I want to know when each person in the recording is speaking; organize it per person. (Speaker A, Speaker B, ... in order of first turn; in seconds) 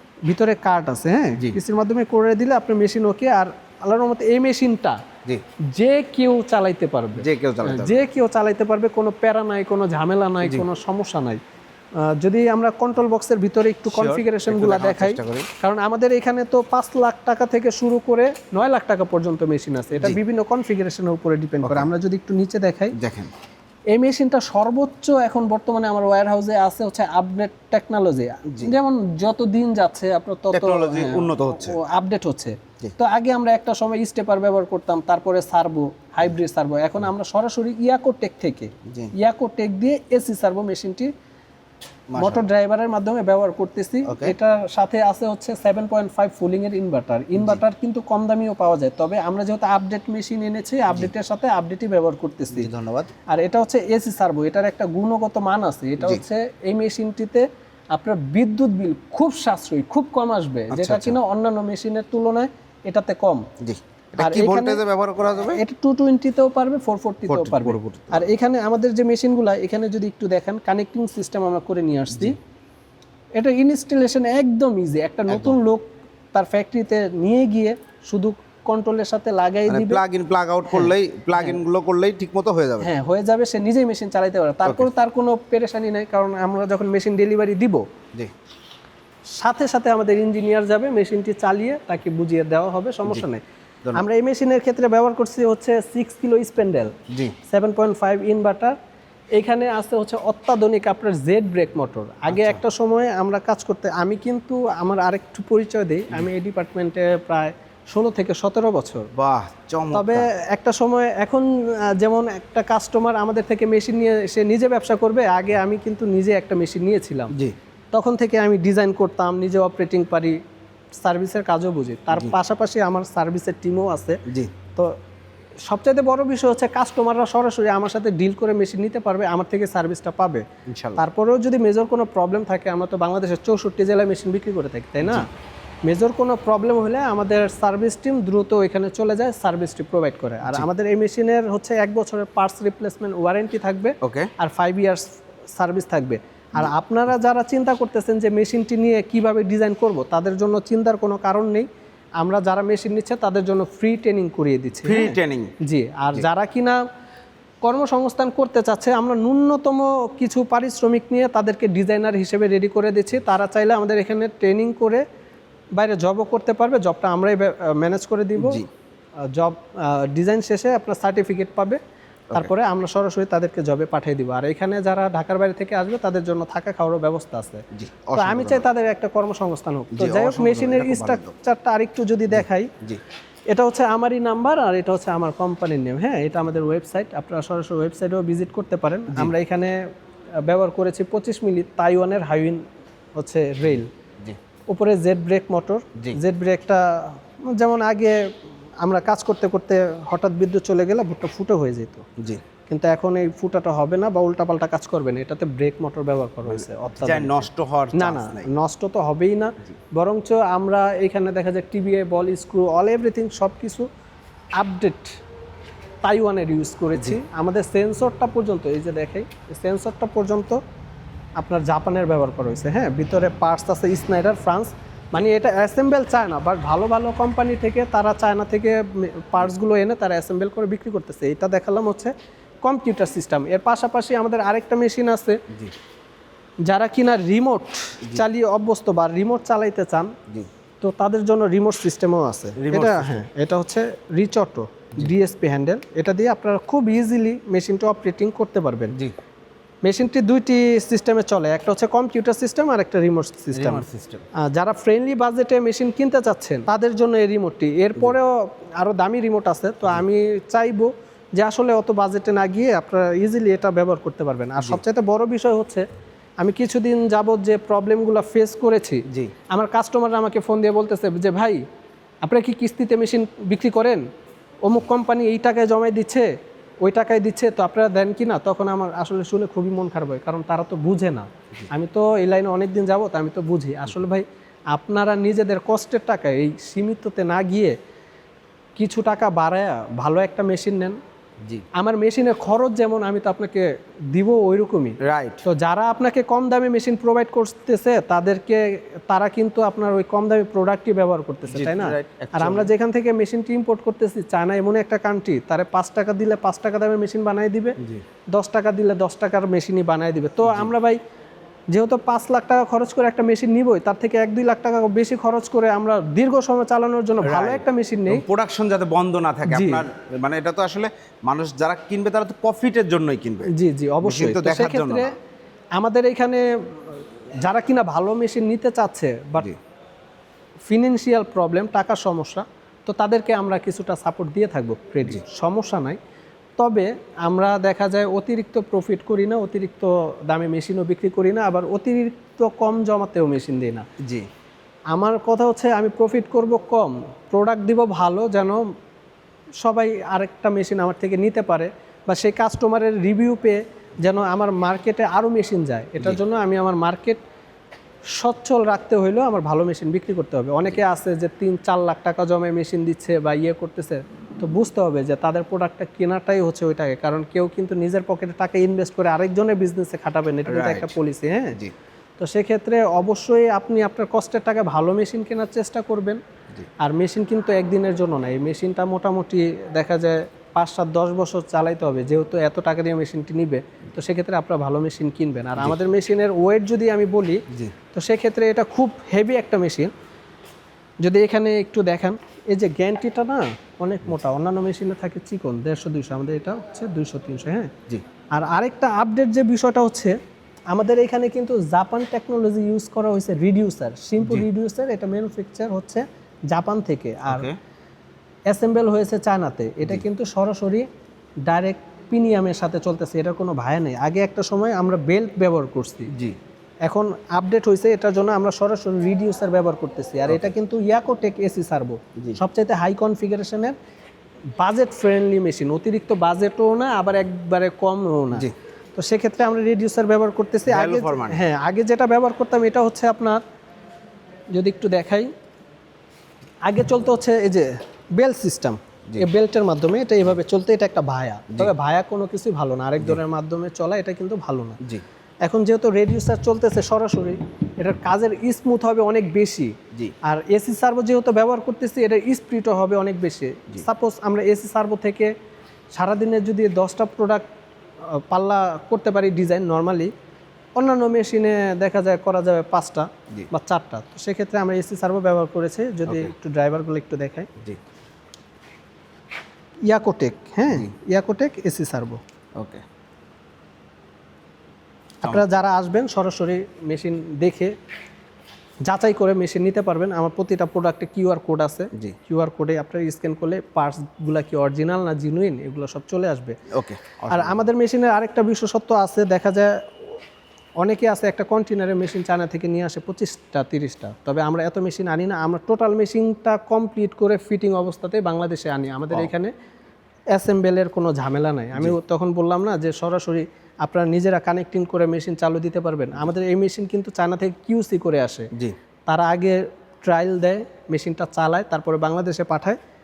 Speaker A: 0.3-5.0, 5.7-11.4, 12.0-22.9, 23.9-41.1, 42.2-52.7, 53.3-63.5, 64.2-64.8, 65.5-72.4, 73.4-80.0, 80.7-81.6, 82.8-87.8, 89.4-93.4, 94.0-96.9, 97.5-98.8, 99.4-109.1, 109.9-117.3, 117.9-120.4, 121.0-124.2, 125.7-130.4, 131.0-135.3, 135.8-151.7, 152.2-156.8, 157.6-165.0, 165.8-168.6, 169.2-171.8, 172.3-182.7, 183.5-189.8, 190.4-192.6, 193.2-193.9, 194.7-198.2, 198.8-202.1, 202.7-213.9, 214.6-215.2, 216.0-220.6, 221.4-235.4, 236.7-240.1, 240.8-248.9, 249.8-253.8, 254.4-265.9, 266.4-271.6, 272.2-274.1, 274.6-287.8, 288.8-291.0, 291.8-307.8, 308.3-311.0, 311.7-318.2, 319.5-319.9, 323.5-325.1, 325.8-329.5, 330.7-336.0, 336.6-343.9, 344.9-348.6, 349.6-357.2, 358.1-371.6, 372.2-376.2, 376.8-389.9, 391.0-397.7, 398.3-400.1, 400.7-407.5, 408.5-410.9, 411.5-416.1, 416.9-423.8, 424.6-433.4, 434.5-435.3, 436.6-444.8, 445.4-455.3, 455.9-457.4, 458.1-460.1, 460.8-467.5, 469.9-472.2, 475.2-477.8, 478.9-486.6, 487.3-489.7, 490.8-499.5, 500.3-508.5, 509.1-512.8
Speaker B: 7.2-8.0, 13.9-15.5, 21.6-21.9, 22.9-23.3, 28.5-28.7, 30.5-31.8, 38.9-39.1, 42.1-42.4, 44.1-44.4, 52.5-53.1, 60.7-61.2, 63.6-65.6, 67.3-68.3, 75.3-75.5, 79.7-82.9, 97.1-97.3, 102.3-102.6, 109.1-110.3, 124.3-124.5, 130.7-131.0, 144.0-144.3, 154.8-155.5, 168.4-168.7, 177.7-178.6, 179.9-181.3, 182.3-183.0, 202.2-202.4, 206.5-208.5, 242.6-243.2, 253.5-254.2, 269.1-269.3, 295.0-295.4, 301.5-302.7, 310.4-310.7, 317.2-323.5, 324.0-325.1, 344.0-344.3, 370.5-371.0, 404.2-404.5, 407.3-407.6, 416.1-416.4, 430.7-431.4, 466.1-466.3, 472.6-472.8, 486.7-487.6